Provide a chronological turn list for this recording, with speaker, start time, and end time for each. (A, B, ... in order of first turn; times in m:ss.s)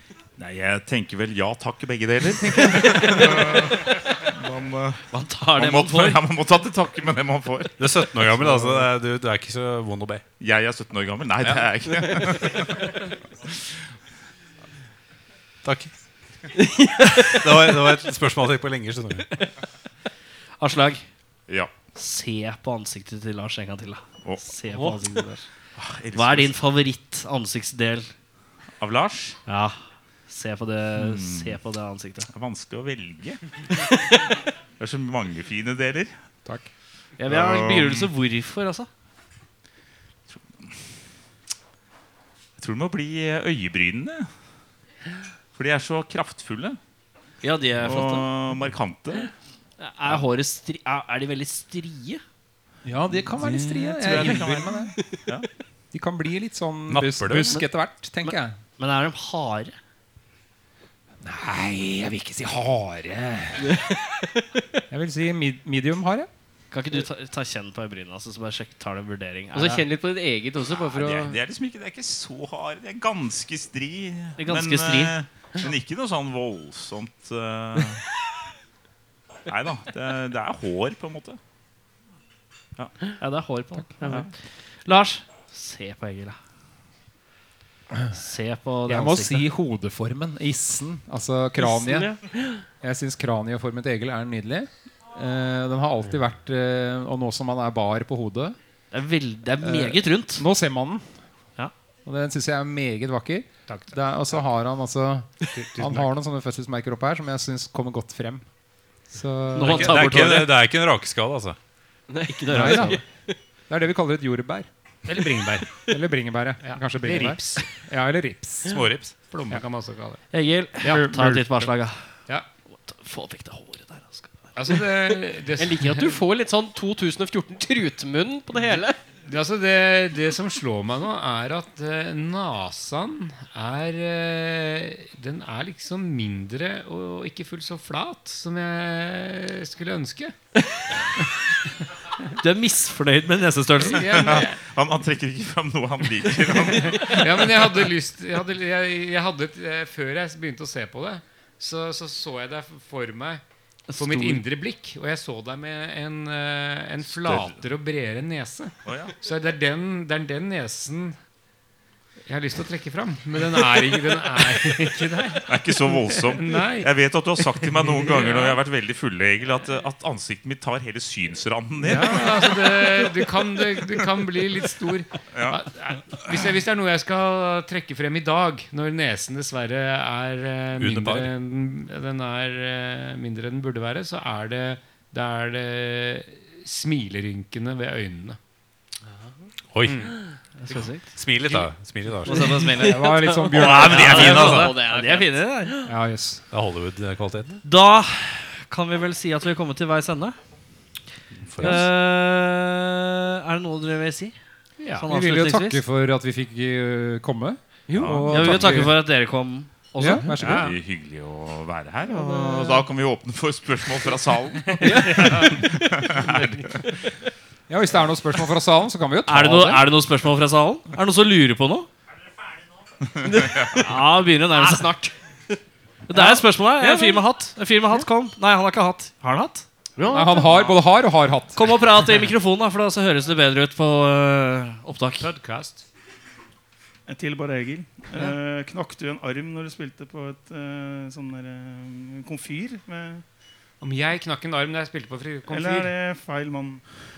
0:00.4-0:08.9 A
0:05.1-0:06.2 B
0:07.8-0:10.2 C
0:10.4-0:13.7 A
0:15.6-0:15.9 C
0:16.6-0:17.4 D
0:17.2-0:19.3 C
0:20.6-0:21.0 B
0:21.9-0:25.4 B
0:25.8-0:26.6 A
0:26.1-0:28.1 B
0:28.8-0:29.4 A
0:29.5-0:32.3 B
0:31.0-0:31.6 A
0:32.3-0:33.4 A
0:33.9-0:34.2 B
0:34.8-0:36.1 A
0:37.2-0:38.9 B
0:37.2-0:38.1 A
0:40.3-0:40.7 A
0:42.6-0:44.3 A
0:45.5-0:46.8 A
0:47.4-0:48.3 B
0:47.8-0:49.3 A
0:49.8-0:52.2 B
0:52.8-0:54.9 E
0:54.0-0:55.5 A
0:54.0-0:54.4 B
0:54.1-0:55.1 D
0:55.9-0:58.6 E
0:56.9-0:57.6 C
0:58.2-0:59.7 B
1:01.2-1:03.8 E
1:03.6-1:03.9 D
1:04.9-1:06.3 E
1:06.7-1:09.9 B
1:09.5-1:11.4 D
1:10.9-1:18.0 A
1:14.4-1:15.2 B
1:19.5-1:21.4 A
1:23.2-1:26.4 B
1:24.0-1:24.3 A
1:28.1-1:29.5 B
1:28.9-1:32.1 E
1:31.6-1:32.6 D
1:32.8-1:38.6 E
1:38.9-1:40.4 B
1:39.6-1:41.1 E
1:42.0-1:48.4 E
1:43.7-1:44.0 F
1:45.5-1:46.1 F
1:49.1-1:50.1 E
1:49.5-1:50.6 B
1:49.6-1:51.6 C
1:52.1-1:53.0 D
1:52.3-1:53.0 B
1:52.5-1:53.0 E
1:53.7-1:54.7 E
1:55.0-1:55.9 F
1:55.9-1:58.8 E
1:56.6-1:57.8 F
1:58.6-1:59.1 C
1:59.3-2:00.2 F
2:00.3-2:02.0 B
2:00.8-2:01.7 F
2:02.8-2:04.7 B
2:04.6-2:06.2 F
2:05.1-2:09.0 D
2:09.3-2:20.3 F
2:22.4-2:24.4 B
2:23.8-2:24.6 F
2:24.1-2:27.7 A
2:26.8-2:33.4 F
2:33.9-2:34.4 B
2:34.0-2:41.2 F
2:37.1-2:37.6 A
2:38.8-2:39.1 A
2:42.3-2:46.9 F
2:45.5-2:53.0 A
2:47.5-2:48.6 F
2:51.8-3:08.4 F
2:55.3-2:55.6 A
3:00.8-3:01.3 C
3:09.7-3:10.1 C
3:09.8-3:10.1 F
3:10.6-3:11.0 B
3:11.1-3:12.7 C
3:12.3-3:15.9 B
3:12.6-3:14.2 E
3:13.5-3:14.8 C
3:13.6-3:15.3 D
3:15.8-3:16.4 E
3:16.5-3:17.6 C
3:17.6-3:20.4 B
3:21.3-3:21.9 C
3:21.6-3:24.3 B
3:24.8-3:25.1 F
3:25.0-3:25.8 B
3:25.1-3:29.0 E
3:27.9-3:28.2 D
3:28.0-3:28.8 A
3:28.2-3:30.5 B
3:30.0-3:30.7 E
3:30.4-3:30.7 F
3:30.4-3:36.7 A
3:32.1-3:32.8 D
3:34.7-3:36.9 F
3:34.8-3:35.7 D
3:37.7-3:39.8 E
3:39.3-3:41.9 B
3:43.1-3:43.9 A
3:43.2-3:43.9 D
3:43.8-3:45.0 B
3:44.5-3:45.1 D
3:46.1-3:49.6 B
3:46.1-3:47.2 D
3:50.0-3:50.7 D
3:50.1-3:51.6 E
3:51.5-3:55.3 B
3:55.2-3:55.8 F
3:57.1-4:03.2 G
4:03.8-4:05.9 F
4:05.5-4:06.8 G